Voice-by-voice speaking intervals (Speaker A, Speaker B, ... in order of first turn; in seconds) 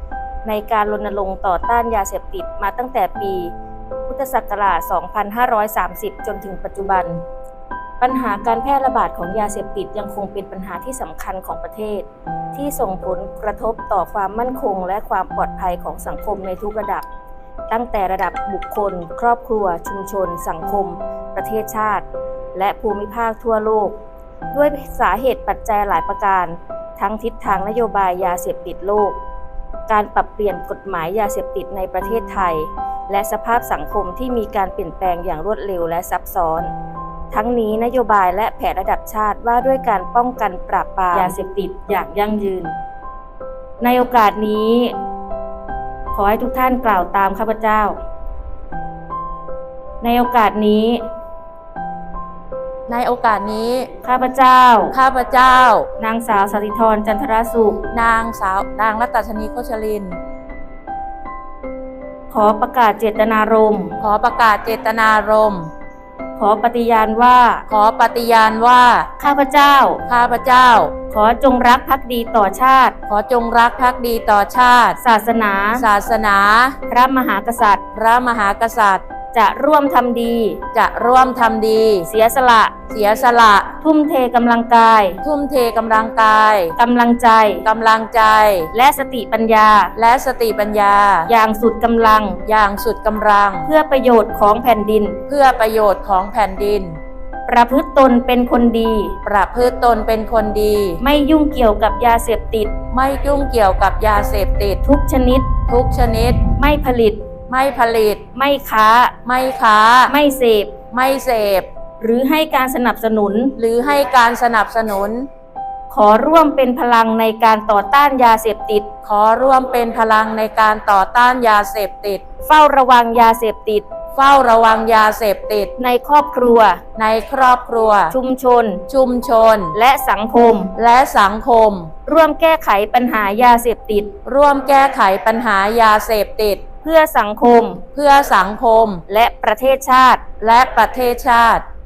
Speaker A: 0.4-3.5, 4.1-7.2, 8.0-17.1, 17.7-23.9, 24.5-29.2, 29.9-36.7, 37.3-42.7, 43.8-44.9, 46.1-48.0, 50.0-51.0, 54.0-55.0, 56.0-57.8, 62.3-64.0, 66.3-67.6, 69.2-70.0, 71.1-73.0, 75.0-75.8, 76.9-77.8, 79.3-80.6, 82.0-82.8, 83.8-85.2, 86.8-87.7, 88.7-89.9, 91.3-92.4, 93.6-95.2, 97.5-99.2, 101.0-102.7, 104.8-105.5, 106.6-107.2, 108.3-109.1, 110.1-110.8, 112.0-113.5, 115.9-118.9, 122.4-123.8, 125.8-126.8, 128.1-128.8, 129.7-130.7, 132.1-134.1, 136.8-137.8, 139.1-140.2
Speaker B: 52.9-53.9, 54.9-55.9, 57.9-60.2, 64.0-65.7, 67.7-69.1, 70.1-70.9, 73.1-75.0, 75.7-76.8, 77.9-79.0, 80.7-82.1, 82.9-83.7, 85.2-86.7, 87.6-88.7, 90.0-91.3, 92.4-93.7, 95.3-97.0, 99.2-101.0, 102.9-104.8, 105.7-106.4, 107.5-108.2, 109.2-110.1, 110.9-111.7, 113.6-115.3, 119.0-122.2, 124.1-125.7, 127.0-128.1, 128.9-129.7, 130.8-131.9, 134.2-136.6, 137.9-139.0, 140.4-141.6